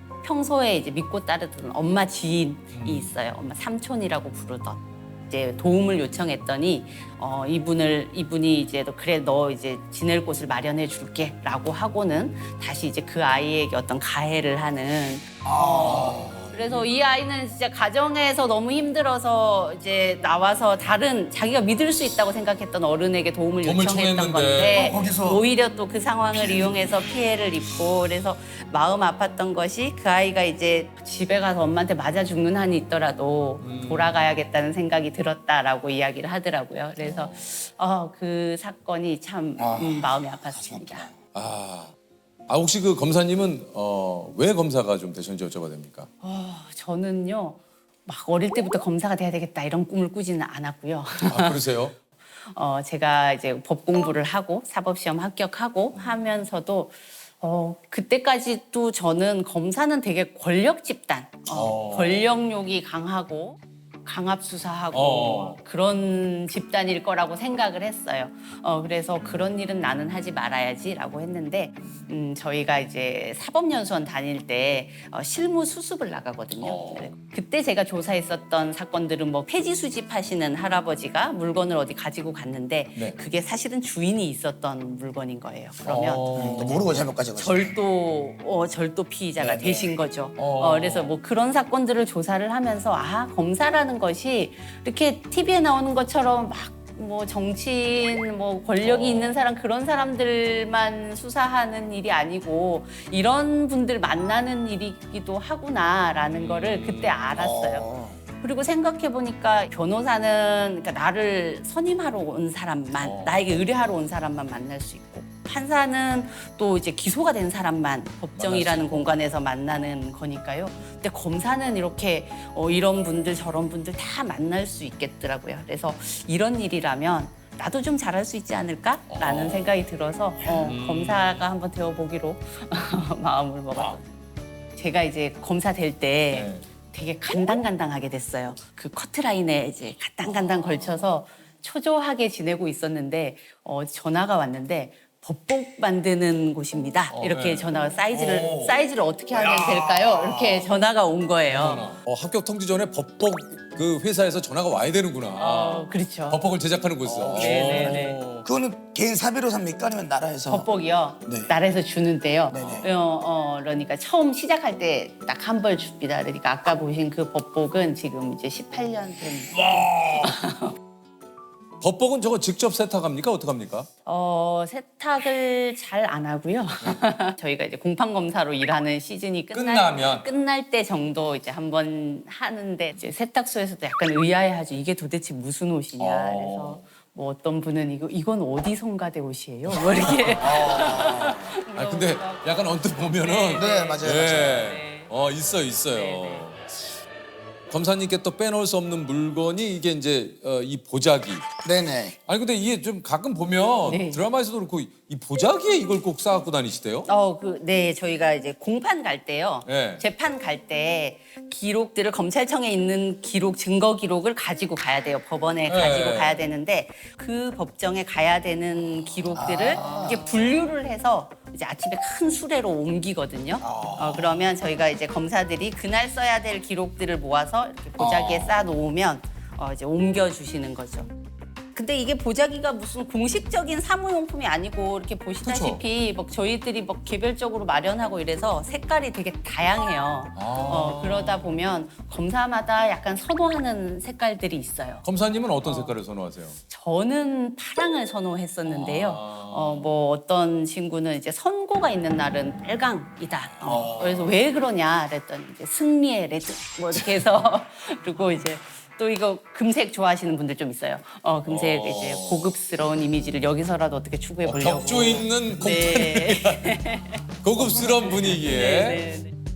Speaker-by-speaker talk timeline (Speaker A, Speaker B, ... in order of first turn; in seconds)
Speaker A: 0.2-41.1, 46.2-51.8, 52.5-107.9, 108.4-134.1, 134.8-151.9, 155.4-156.4, 157.3-158.2, 160.5-170.8, 174.1-195.1, 195.9-196.5, 203.8-204.3, 207.1-231.1, 231.7-245.1, 245.6-246.0, 246.7-269.3
Speaker B: 2.7-3.2, 15.9-16.3, 23.6-24.9, 33.6-34.2, 37.0-37.4, 41.3-41.9, 42.5-46.1, 51.2-52.0, 55.9-56.2, 61.5-62.2, 64.9-65.6, 76.6-77.1, 85.8-86.8, 90.4-91.1, 98.8-99.4, 106.3-107.2, 113.0-113.5, 118.3-119.1, 129.1-129.7, 130.4-131.5, 133.7-134.0, 136.3-136.7, 140.2-141.1, 147.1-148.8, 151.5-158.5, 162.5-162.9, 171.8-173.9, 179.5-180.3, 186.0-186.8, 189.7-190.6, 191.7-196.8, 197.7-201.5, 202.3-207.1, 209.7-210.0, 215.7-216.5, 235.4-235.8, 240.4-241.6, 245.0-246.6, 248.6-249.9, 253.4-254.4, 261.5-262.5, 264.4-266.7, 267.4-269.1
Speaker C: 15.4-16.9, 24.7-25.4, 26.3-26.8, 39.6-41.1, 86.3-87.8, 89.4-89.9, 107.3-108.2, 149.3-150.6, 157.0-160.7, 161.2-161.5, 162.5-162.9, 169.6-170.2, 190.4-191.5, 193.5-194.6, 201.6-202.2, 219.3-220.3, 223.6-224.5, 228.0-228.6